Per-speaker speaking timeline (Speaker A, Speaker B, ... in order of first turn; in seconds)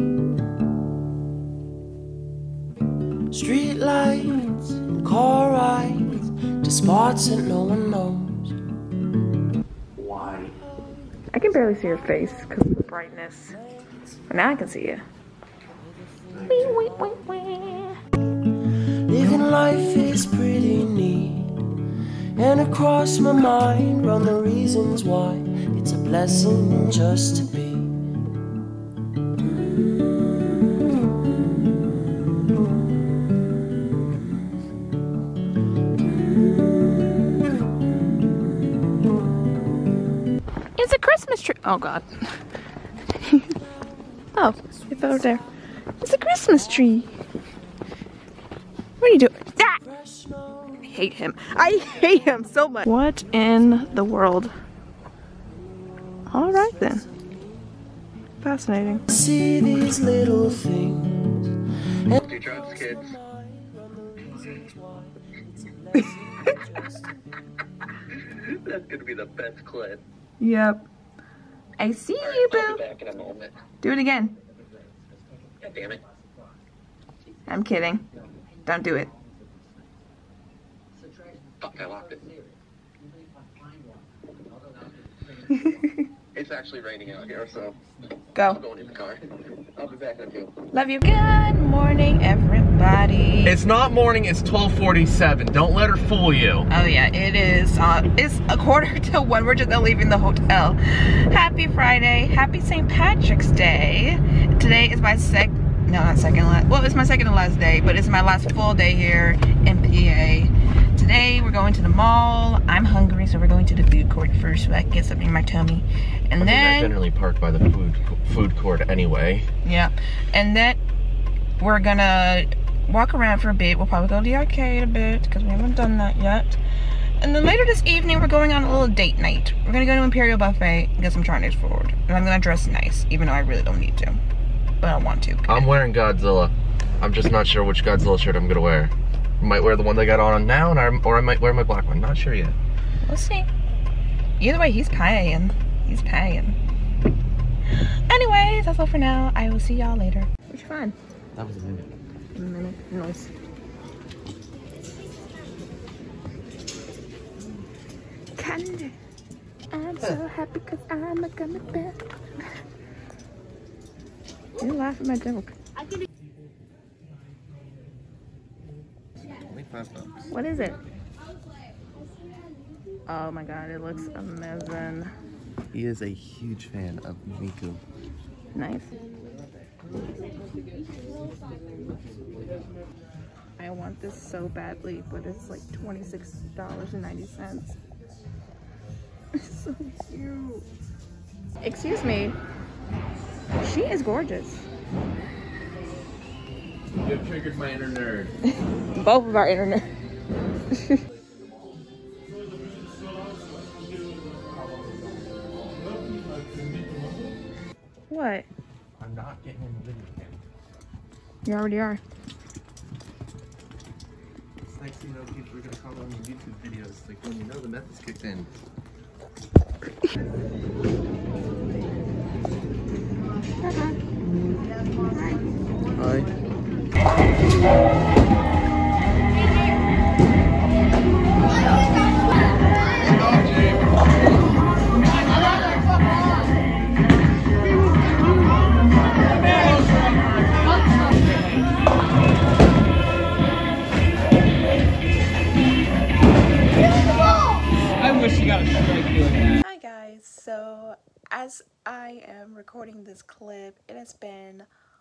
Speaker A: 3.3-8.6, 19.1-21.6, 22.3-28.0, 49.8-50.9, 56.6-57.7, 59.1-61.5, 62.1-67.2
Speaker B: 9.9-10.5, 16.3-16.8, 62.1-63.1, 68.4-70.0, 72.2-73.5, 75.6-76.0, 81.6-82.2, 86.3-87.8, 88.5-90.5, 93.5-96.7, 116.4-119.5, 135.5-142.6, 151.3-151.9, 169.2-170.3, 175.7-177.8, 196.9-198.3, 201.1-201.8, 209.0-210.4, 214.7-218.5, 226.0-226.3
Speaker C: 11.3-13.6, 14.3-15.0, 16.5-18.0, 40.8-42.1, 43.2-43.5, 44.3-45.4, 46.0-47.1, 49.0-49.8, 50.8-54.5, 56.3-57.0, 58.4-59.0, 70.4-70.8, 71.8-72.8, 73.8-74.4, 77.5-78.0, 78.6-79.1, 85.5-86.0, 88.3-88.6, 90.7-93.5, 96.7-116.9, 119.6-120.8, 121.6-126.6, 127.2-134.2, 134.8-135.6, 143.0-143.5, 144.4-146.6, 148.1-150.9, 152.3-153.3, 158.3-158.9, 159.7-162.0, 164.6-165.5, 170.3-170.8, 173.1-175.1, 178.5-178.9, 183.6-187.8, 189.3-190.7, 191.6-192.4, 193.6-194.7, 198.5-199.9, 200.7-201.0, 208.1-208.5, 211.4-212.0, 249.4-254.7